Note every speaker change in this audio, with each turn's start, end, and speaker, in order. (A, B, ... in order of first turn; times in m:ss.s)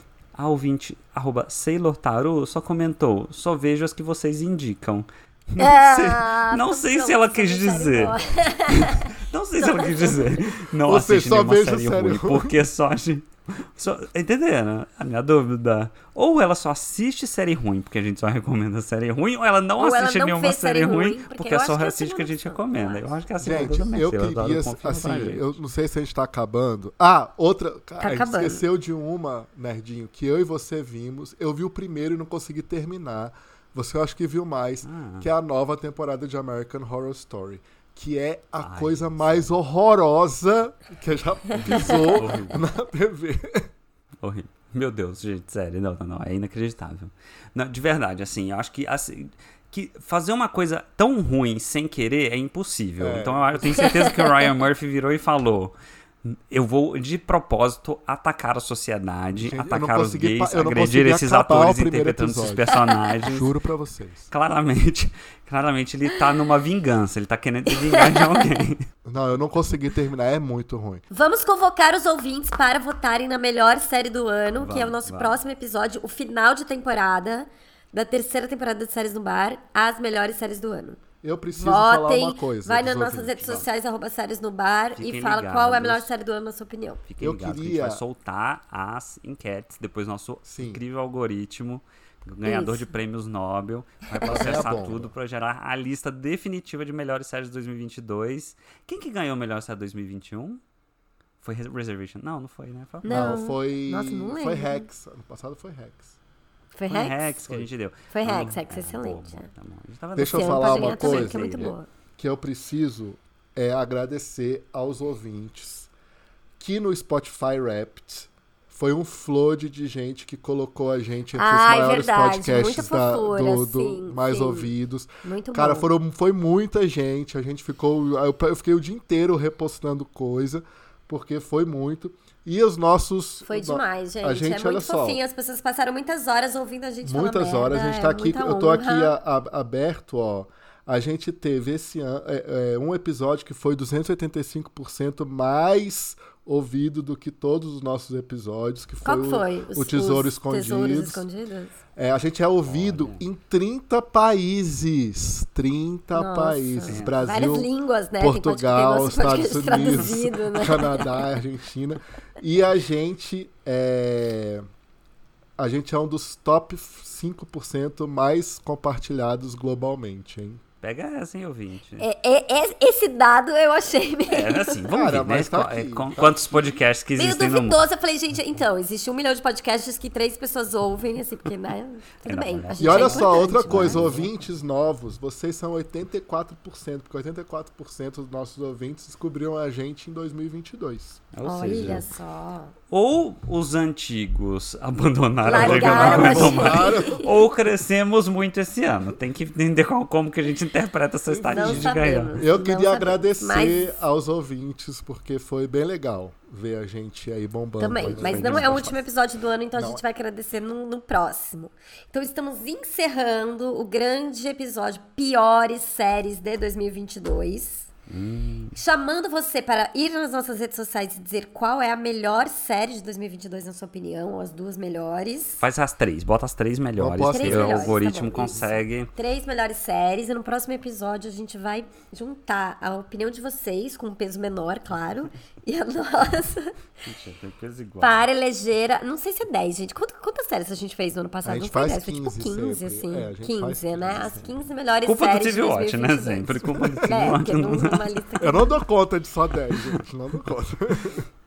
0:00.4-0:25.5 A
0:05.6-0:10.5 B
0:10.9-0:12.6 C
0:19.8-0:24.0 B
0:23.4-0:43.7 C
0:28.0-0:28.6 B
0:34.8-0:35.3 A
0:38.6-0:39.5 A
0:41.6-0:42.6 A
0:44.2-0:55.7 A
0:53.0-0:54.1 C
0:56.2-1:03.5 A
0:59.4-1:02.7 C
1:02.7-1:03.0 B
1:03.3-1:04.3 C
1:04.3-1:08.9 A
1:07.7-1:08.4 B
1:09.0-1:11.0 C
1:11.1-1:21.0 B
1:14.6-1:15.4 A
1:21.2-1:23.5 C
1:21.6-1:27.0 B
1:23.4-1:23.6 A
1:25.0-1:26.1 A
1:27.1-1:40.6 A
1:27.2-1:28.0 C
1:30.5-1:30.8 C
1:32.4-1:32.9 B
1:34.2-1:35.1 C
1:41.4-1:43.3 A
1:43.0-1:44.9 B
1:43.1-1:46.2 C
1:46.7-1:47.2 B
1:46.9-1:51.7 A
1:48.1-1:49.5 B
1:50.2-1:55.9 C
1:50.2-1:51.9 B
1:56.6-2:15.2 C
2:01.3-2:05.9 B
2:13.4-2:19.2 B
2:17.0-2:31.2 C
2:29.0-2:31.8 B
2:32.0-2:44.6 C
2:32.6-2:33.2 A
2:36.1-2:41.4 B
2:36.8-2:37.2 A
2:39.8-2:40.1 A
2:45.6-2:50.6 C
2:50.8-2:52.1 A
2:52.0-2:54.9 B
2:54.3-2:57.9 A
2:54.9-2:56.8 C
2:57.2-3:04.3 B
3:02.2-3:04.2 A
3:02.8-3:11.2 C
3:11.3-3:12.0 A
3:11.4-3:12.7 B
3:12.9-3:22.4 A
3:15.4-3:17.3 B
3:15.5-3:17.3 C
3:21.3-3:29.0 C
3:21.4-3:24.0 B
3:27.8-3:37.9 B
3:28.0-3:28.8 A
3:29.7-3:30.0 C
3:38.1-3:38.8 A
3:38.8-3:45.6 B
3:45.6-3:49.1 A
3:47.0-3:48.0 C
3:47.3-3:56.8 B
3:57.1-3:58.3 A
3:58.0-4:08.8 B
4:01.4-4:04.6 C
4:05.0-4:08.1 A
4:06.8-4:07.3 C
4:08.4-4:11.3 C
4:09.7-4:10.0 A